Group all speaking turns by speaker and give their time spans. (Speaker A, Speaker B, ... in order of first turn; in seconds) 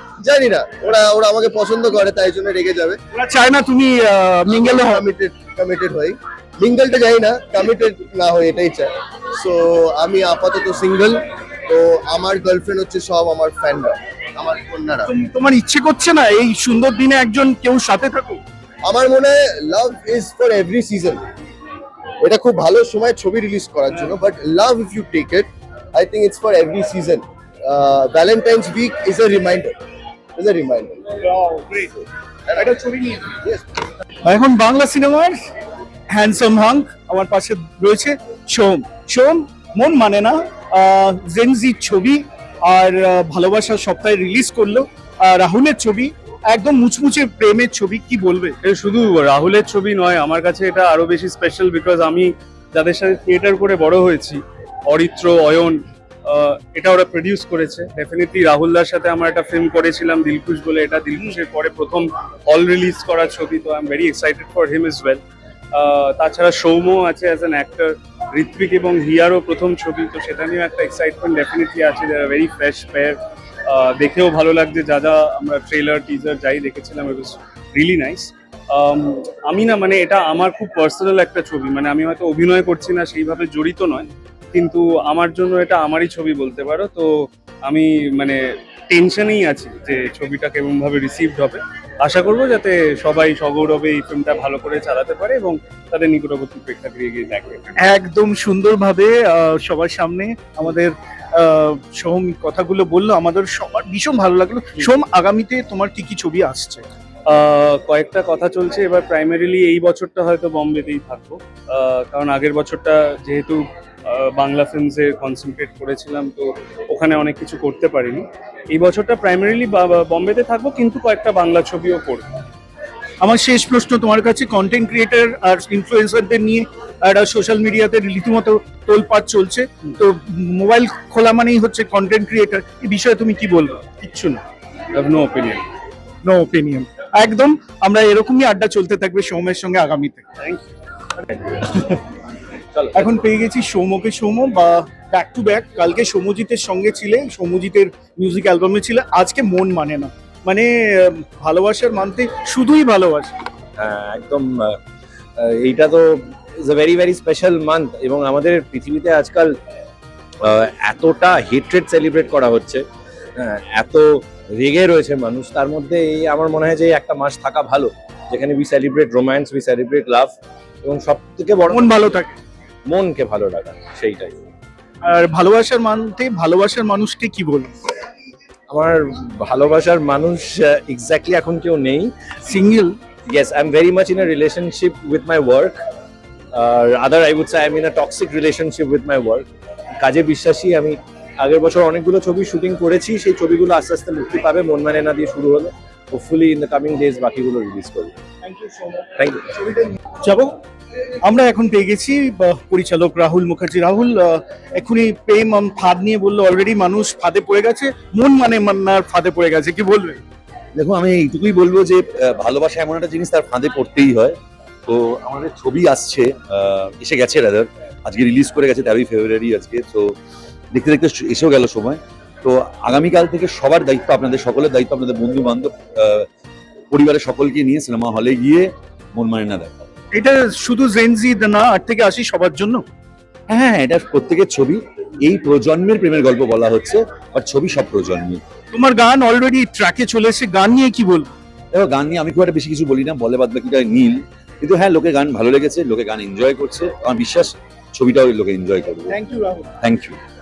Speaker A: 0.2-3.0, 4.5-15.1, 18.8-21.2, 22.2-29.7, 30.4-31.0
Speaker B: 3.1-5.0, 15.1-18.4, 31.2-31.9, 32.5-33.3, 34.2-35.4, 36.1-48.5, 97.8-106.8, 123.2-134.4, 136.2-140.2, 141.7-142.0, 142.9-153.3, 171.7-172.3, 175.0-177.7, 182.4-182.9, 198.4-200.6, 201.2-210.2, 230.1-232.8, 238.7-241.3, 249.1-249.7
Speaker C: 48.6-65.2, 65.7-97.8, 107.3-122.2, 134.9-135.6
Speaker D: 142.7-143.1, 153.8-154.8, 155.4-159.5, 160.4-162.8, 163.4-172.0, 172.9-174.4, 178.7-182.1, 183.2-185.8, 186.5-189.4, 190.0-198.1, 199.2-199.4
Speaker E: 210.8-220.2, 220.7-226.3, 226.9-229.7, 233.5-238.4, 241.7-249.1, 249.8-250.2